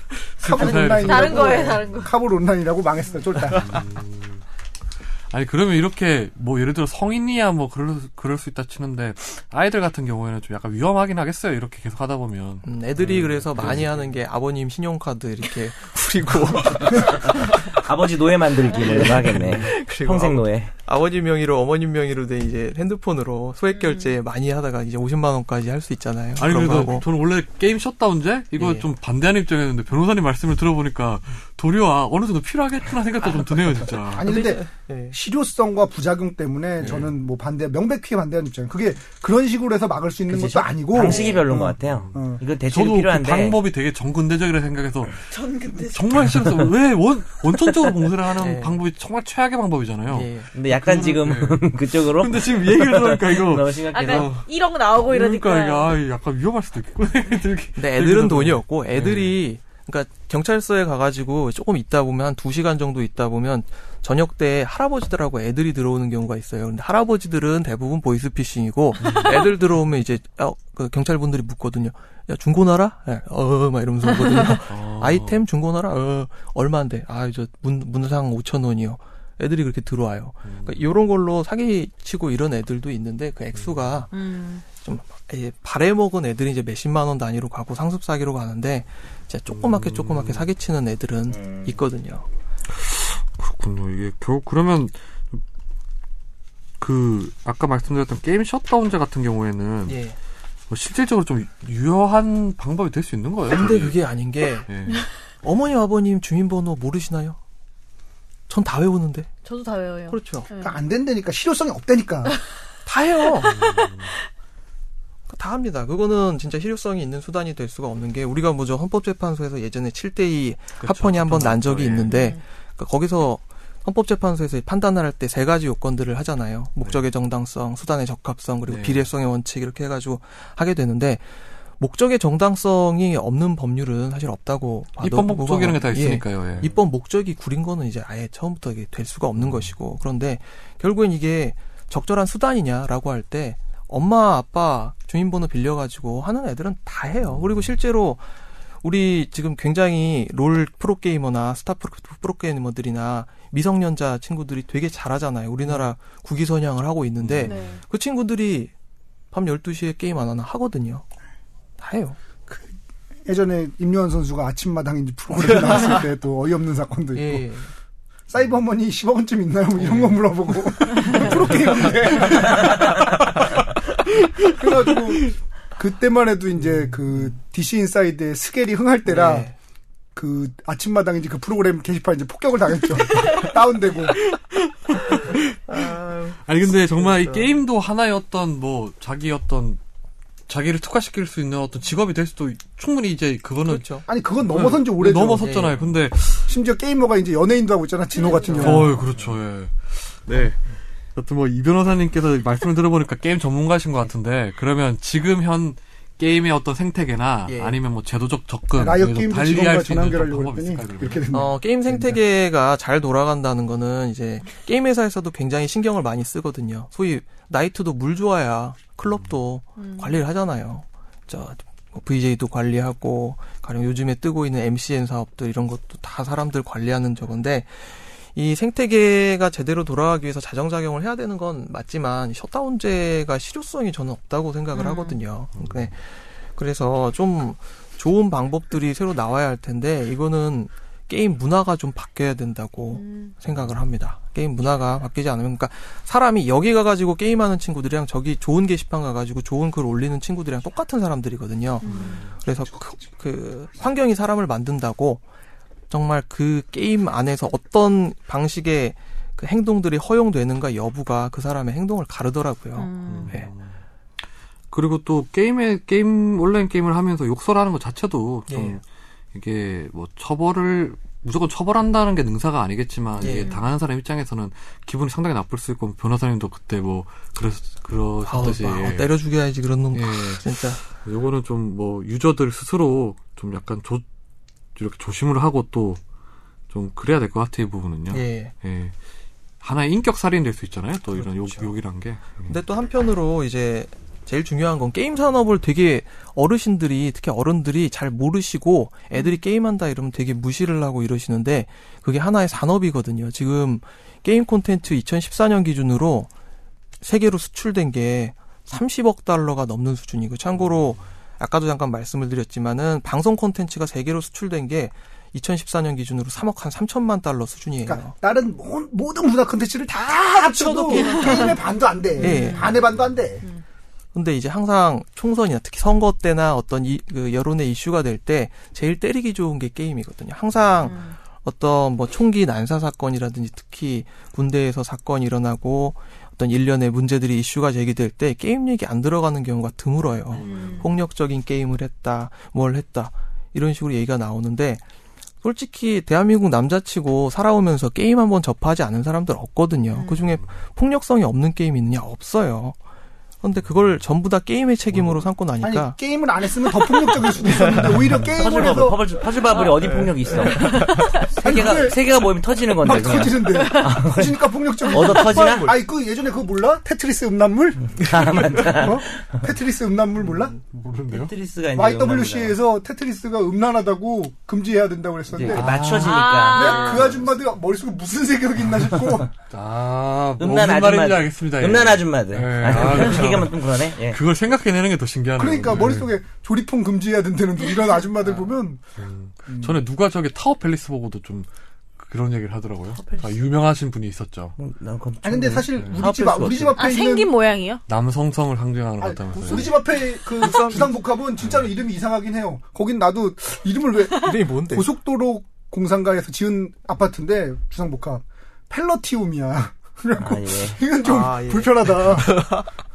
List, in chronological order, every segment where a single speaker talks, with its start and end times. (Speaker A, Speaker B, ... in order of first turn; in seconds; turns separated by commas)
Speaker A: 0.4-2.1, Speaker B: 0.4-3.8, Speaker C: 0.5-2.1, Speaker A: 3.5-4.4, Speaker A: 5.3-14.1, Speaker D: 12.6-17.8, Speaker E: 17.2-20.7, Speaker D: 18.8-27.1, Speaker A: 19.2-19.7, Speaker C: 23.7-24.2, Speaker A: 26.4-34.2, Speaker D: 28.6-28.9, Speaker B: 34.1-42.4, Speaker D: 34.2-35.2, Speaker A: 36.8-37.1, Speaker D: 36.8-37.1, Speaker E: 40.3-43.6, Speaker A: 41.1-45.2, Speaker C: 45.4-45.9, Speaker A: 45.9-59.4, Speaker D: 48.3-48.8, Speaker D: 50.1-50.5, Speaker E: 50.5-54.3, Speaker C: 53.9-55.9, Speaker D: 57.8-92.2, Speaker A: 69.0-69.5, Speaker A: 74.7-75.4, Speaker A: 80.4-80.8, Speaker C: 84.1-84.6, Speaker A: 89.5-90.5, Speaker E: 91.3-91.8, Speaker A: 92.7-95.4, Speaker A: 96.8-100.0, Speaker D: 99.8-100.2, Speaker A: 100.7-104.1, Speaker D: 103.5-107.4, Speaker A: 104.7-105.0, Speaker D: 108.5-109.3, Speaker C: 109.4-110.8, Speaker D: 110.1-110.5, Speaker B: 110.6-112.3, Speaker D: 112.8-113.6, Speaker C: 113.4-113.9, Speaker A: 113.4-114.1, Speaker D: 115.3-131.2, Speaker A: 120.8-122.1, Speaker C: 122.1-122.4, Speaker A: 128.7-129.0, Speaker D: 131.8-148.2, Speaker A: 135.0-136.7, Speaker A: 139.4-139.7, Speaker A: 147.3-147.6, Speaker D: 148.8-158.7, Speaker A: 157.2-157.6, Speaker C: 157.4-157.8, Speaker D: 159.3-161.0, Speaker D: 161.8-162.2, Speaker B: 163.2-167.4, Speaker D: 165.4-166.0, Speaker D: 167.1-167.7, Speaker B: 168.3-173.2, Speaker D: 169.8-170.2, Speaker D: 171.1-171.6, Speaker B: 174.5-179.5, Speaker D: 179.1-179.5, Speaker B: 180.1-184.2, Speaker A: 183.2-183.5, Speaker A: 184.1-185.9, Speaker D: 185.2-187.6, Speaker A: 186.4-189.8, Speaker A: 190.5-196.5, Speaker D: 193.6-194.1, Speaker B: 194.1-195.5, Speaker D: 195.4-195.8, Speaker B: 196.5-199.0, Speaker C: 198.2-198.8, Speaker D: 198.6-198.9, Speaker A: 198.6-200.6, Speaker A: 201.2-211.2, Speaker D: 207.5-207.8, Speaker B: 208.8-212.2, Speaker D: 211.3-255.2, Speaker C: 219.8-220.2, Speaker C: 234.7-235.2, Speaker A: 235.6-235.9, Speaker C: 242.9-243.3, Speaker A: 243.5-243.8, Speaker C: 251.8-252.2, Speaker D: 255.9-263.5, Speaker C: 262.7-263.4, Speaker A: 263.0-263.8, Speaker A: 264.7-268.8, Speaker D: 268.5-268.8, Speaker A: 269.3-279.1, Speaker D: 273.2-273.6, Speaker C: 273.2-273.6, Speaker D: 278.2-280.8, Speaker A: 279.9-284.0, Speaker A: 284.8-286.0, Speaker A: 286.7-288.9, Speaker D: 288.1-288.5, Speaker A: 289.6-292.6, Speaker D: 291.1-291.7, Speaker D: 292.5-306.3, Speaker D: 307.0-318.1, Speaker B: 317.8-323.4, Speaker D: 320.0-321.6, Speaker C: 320.9-322.8, Speaker D: 322.2-322.8, Speaker D: 324.1-344.8, Speaker C: 330.8-331.2, Speaker C: 340.4-340.9, Speaker D: 345.4-352.7, Speaker C: 349.9-350.2, Speaker D: 353.4-356.0, Speaker A: 354.9-355.2, Speaker B: 355.6-359.2, Speaker D: 357.1-358.2, Speaker A: 357.8-358.3, Speaker E: 358.4-365.8, Speaker C: 359.5-359.8, Speaker D: 360.1-360.9, Speaker C: 360.4-361.3, Speaker B: 361.4-362.0, Speaker B: 362.8-370.6, Speaker C: 363.5-364.0, Speaker E: 367.9-369.4, Speaker A: 370.7-371.3, Speaker E: 371.1-372.6, Speaker B: 371.7-379.3, Speaker E: 375.3-377.0, Speaker C: 375.9-377.1, Speaker D: 376.9-377.2, Speaker A: 379.5-386.1, Speaker E: 380.4-384.2, Speaker B: 385.4-388.8, Speaker A: 388.2-394.6, Speaker B: 389.5-389.8, Speaker E: 392.9-393.4, Speaker E: 394.6-396.8, Speaker B: 395.2-397.3, Speaker A: 395.7-396.0, Speaker C: 396.8-397.8, Speaker A: 397.9-399.8, Speaker B: 399.0-412.4, Speaker D: 400.4-401.0, Speaker D: 404.1-404.9, Speaker E: 410.2-410.8, Speaker D: 411.0-412.6